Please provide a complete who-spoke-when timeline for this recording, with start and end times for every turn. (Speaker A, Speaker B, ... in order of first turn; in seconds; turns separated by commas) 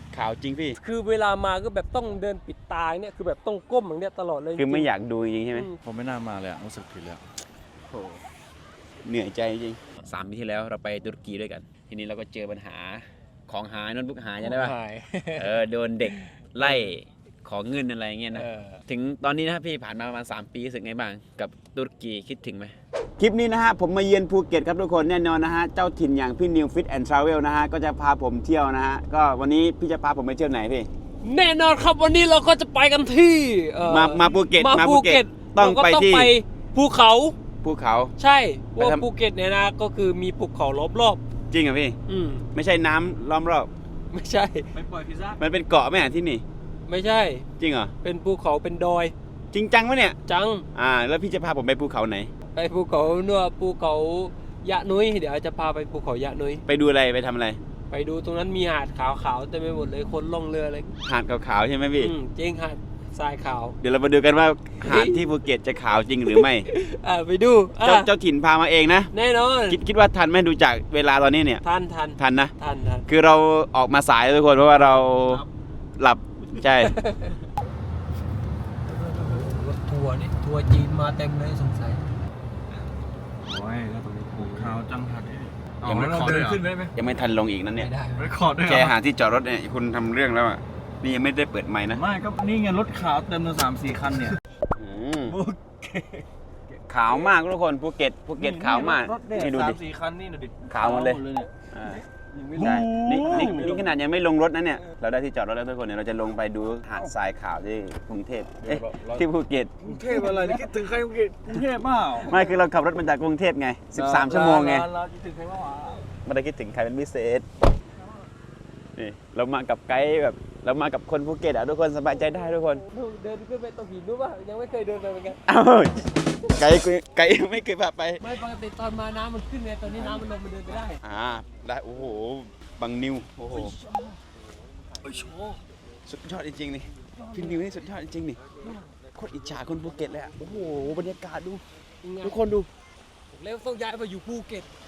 Speaker A: 0.1-0.8, Speaker B: 0.8-4.9, Speaker A: 4.6-5.7, Speaker B: 5.5-5.8, Speaker C: 5.9-7.2, Speaker A: 7.9-8.2, Speaker A: 9.0-14.7, Speaker B: 14.4-16.9, Speaker A: 15.3-30.9, Speaker B: 18.3-18.8, Speaker B: 31.2-37.4, Speaker A: 33.9-36.3, Speaker A: 37.6-38.1, Speaker B: 38.2-41.2, Speaker A: 38.8-39.0, Speaker A: 41.5-42.0, Speaker B: 42.1-42.5, Speaker A: 42.5-43.7, Speaker B: 44.1-44.7, Speaker C: 44.7-45.4, Speaker A: 45.4-46.4, Speaker B: 46.9-47.5, Speaker A: 47.6-47.9, Speaker B: 48.0-49.1, Speaker A: 49.5-50.2, Speaker B: 50.3-50.6, Speaker A: 50.7-52.3, Speaker B: 52.5-56.6, Speaker A: 56.7-57.6, Speaker B: 57.9-61.0, Speaker A: 61.0-62.1, Speaker B: 62.0-63.8, Speaker A: 63.8-66.7, Speaker B: 64.8-65.3, Speaker B: 66.3-68.1, Speaker A: 67.8-69.1, Speaker B: 69.1-69.8, Speaker A: 69.7-71.6, Speaker B: 71.6-73.1, Speaker A: 72.2-72.5, Speaker A: 73.1-75.4, Speaker A: 76.0-77.0, Speaker B: 76.8-77.4, Speaker B: 78.8-82.0, Speaker C: 83.4-86.9, Speaker A: 85.8-87.9, Speaker B: 87.8-88.3, Speaker C: 88.1-89.0, Speaker A: 88.6-92.0, Speaker C: 91.9-94.4, Speaker A: 94.8-95.4, Speaker C: 95.3-96.2, Speaker A: 96.9-99.8, Speaker C: 98.4-104.0, Speaker A: 100.7-102.0, Speaker A: 102.5-110.2, Speaker C: 108.6-109.2, Speaker C: 109.8-112.5, Speaker A: 112.2-114.9, Speaker C: 113.9-116.0, Speaker A: 116.2-117.5, Speaker A: 119.0-122.8, Speaker B: 122.8-125.4, Speaker A: 125.5-128.2, Speaker B: 128.2-131.0, Speaker A: 131.0-133.7, Speaker B: 133.5-133.9, Speaker B: 135.0-135.6, Speaker A: 136.1-138.4, Speaker B: 137.2-137.6, Speaker A: 139.1-141.6, Speaker B: 142.0-142.4, Speaker A: 142.2-142.7, Speaker B: 143.3-144.7